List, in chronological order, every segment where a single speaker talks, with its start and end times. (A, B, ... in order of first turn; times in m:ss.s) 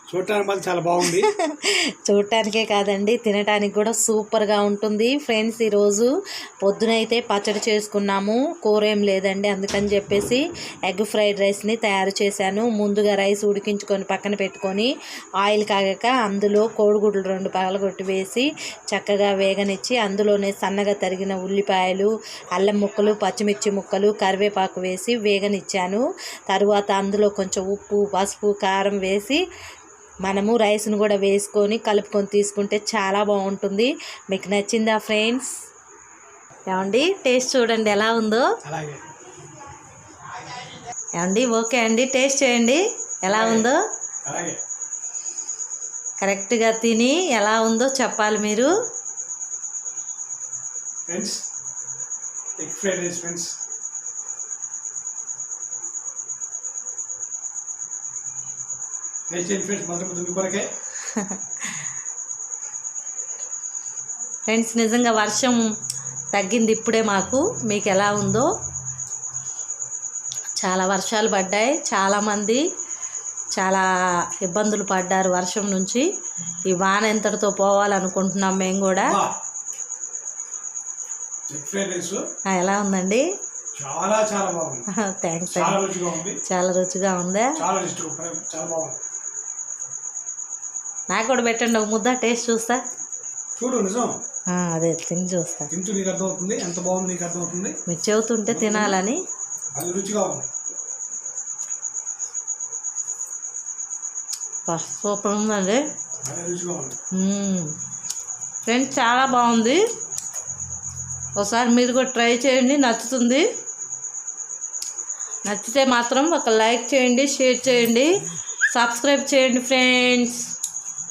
0:00.1-0:01.3 A
0:01.0-0:06.1 B
0:06.6-0:14.9 B
0:15.4-0:29.4 B
0:30.2-0:35.5 B
0:36.7-0:38.4 B
0:38.6-0:39.0 A
0:41.2-0:43.8 B
0:43.3-0:43.7 A
0:44.2-0:44.6 A
0:46.2-0:48.7 B
0:51.1-0:51.4 A
0:52.6-0:53.5 A
0:59.3-1:00.7 A
1:01.0-1:01.9 B
1:04.5-1:05.6 B
1:06.3-1:08.5 B
1:10.6-1:12.6 B
1:13.6-1:13.8 B
1:14.4-1:16.0 B
1:16.6-1:19.2 B
1:19.0-1:19.3 A
1:21.5-1:22.2 A
1:22.5-1:23.2 B
1:23.8-1:24.8 A
1:25.0-1:25.8 B
1:25.5-1:26.4 A
1:26.4-1:27.5 B
1:27.6-1:29.0 A
1:31.1-1:32.8 B
1:33.6-1:34.2 A
1:34.5-1:35.7 B
1:35.7-1:37.8 A
1:37.9-1:39.2 B
1:38.5-1:39.0 A
1:39.8-1:40.5 A
1:44.7-1:45.8 B
1:46.2-1:47.0 A
1:47.1-1:47.7 B
1:48.6-1:49.8 B
1:51.4-1:53.5 B
1:55.4-1:58.1 B
1:58.7-2:00.4 B